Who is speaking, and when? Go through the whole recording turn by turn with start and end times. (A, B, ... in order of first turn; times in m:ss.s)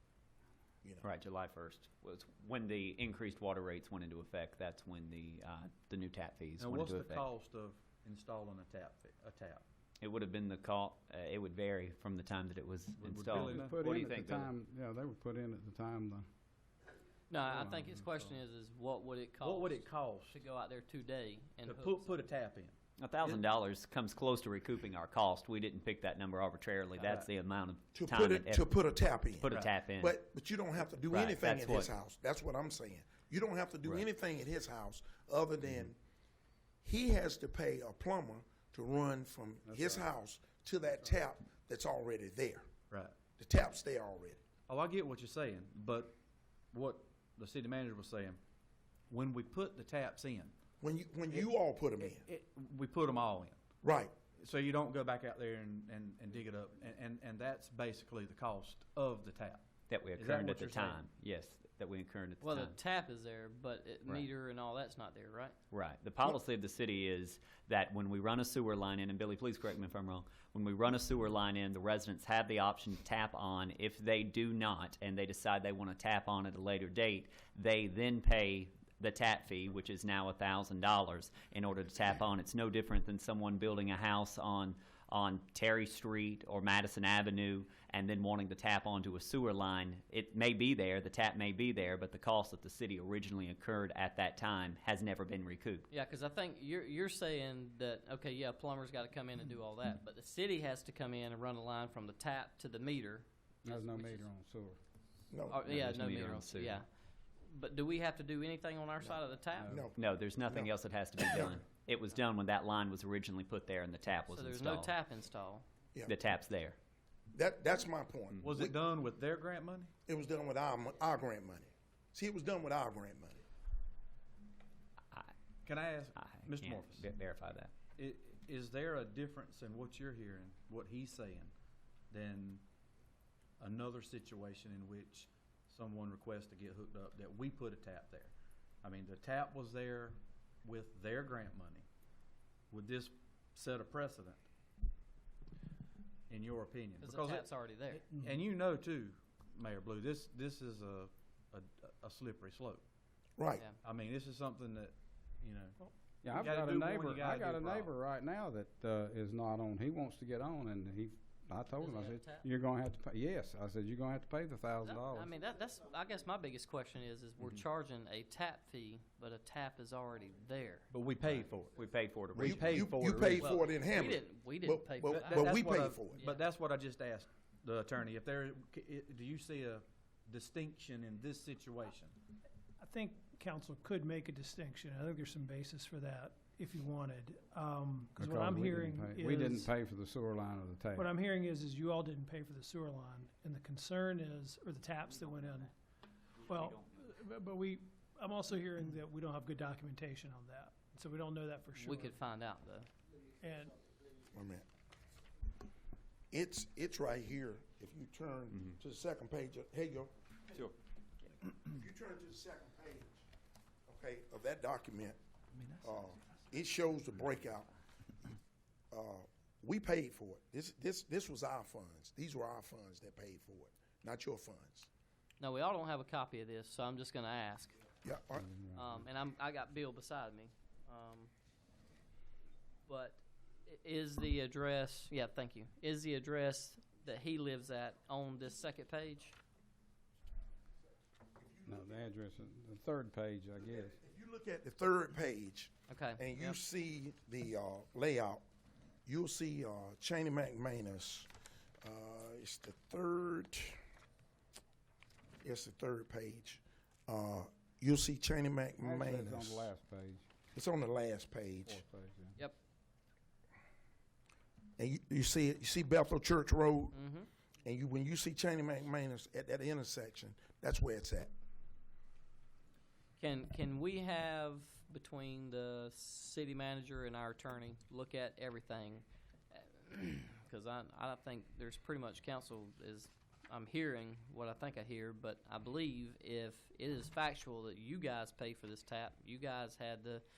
0:01.0-0:07.2 A
0:06.6-0:09.6 B
0:10.0-0:14.5 A
0:13.0-0:13.8 B
0:13.3-0:16.3 C
0:17.3-0:22.2 D
0:17.4-0:18.4 B
0:19.4-0:20.4 B
0:21.6-0:23.4 B
0:23.0-0:28.7 A
0:27.0-0:27.3 B
0:27.9-0:36.0 E
0:29.4-0:30.2 A
0:29.5-0:29.8 B
0:31.1-0:31.9 A
0:36.8-0:42.7 E
0:39.7-0:40.1 C
0:42.9-0:43.2 B
0:43.4-0:44.4 E
0:44.7-0:46.1 B
0:46.7-0:48.4 B
0:49.1-0:50.5 B
0:50.8-0:52.3 E
0:51.3-0:53.6 B
0:53.8-0:54.2 E
0:54.3-0:59.6 B
0:59.9-1:02.8 A
1:00.2-1:01.0 B
1:02.4-1:05.6 D
1:05.7-1:35.9 A
1:35.9-1:44.3 D
1:43.6-1:44.8 C
1:45.3-1:45.6 E
1:45.5-1:46.8 D
1:45.6-1:46.8 A
1:47.5-1:49.8 D
1:49.6-1:49.9 C
1:49.7-1:50.0 E
1:50.0-1:54.9 A
1:51.3-1:51.6 E
1:54.3-1:55.6 D
1:56.1-1:56.8 A
1:57.3-1:58.8 E
1:58.4-1:59.9 B
2:00.1-2:03.4 E
2:05.6-2:07.1 B
2:06.2-2:07.7 A
2:08.0-2:11.5 B
2:12.1-2:12.6 B
2:13.6-2:21.8 B
2:22.7-2:24.4 B
2:26.3-2:32.8 B
2:27.0-2:28.2 D
2:33.4-2:33.7 E
2:33.8-2:37.9 B
2:36.2-2:45.3 C
2:41.8-2:42.4 D
2:44.8-2:51.4 D
2:50.9-2:53.5 B
2:51.8-2:52.8 A
2:52.4-2:56.2 E
2:53.4-2:56.4 D
2:55.0-3:02.2 B
3:02.8-3:09.7 F
3:08.2-3:11.1 C
3:11.0-3:15.7 F
3:16.4-3:16.8 A
3:16.5-3:22.1 F
3:21.7-3:22.9 D
3:23.4-3:23.8 F
3:24.3-3:24.6 E
3:26.3-3:30.1 E
3:31.6-3:33.2 E
3:33.9-3:35.2 E
3:35.6-3:35.9 B
3:35.8-3:37.7 E
3:38.9-3:44.9 E
3:45.4-3:47.8 D
3:48.0-3:48.4 E
3:48.3-3:49.0 C
3:48.7-3:51.3 D
3:52.9-3:59.4 D
4:01.5-4:01.8 E
4:01.6-4:04.0 C
4:03.8-4:08.4 E
4:05.9-4:06.6 D
4:09.1-4:11.3 E
4:11.8-4:13.8 E
4:15.4-4:19.7 E
4:18.8-4:20.3 C
4:20.5-4:21.8 E
4:21.7-4:22.4 C
4:24.8-4:27.0 E
4:26.9-4:27.3 D
4:27.6-4:31.3 E
4:33.2-4:50.2 D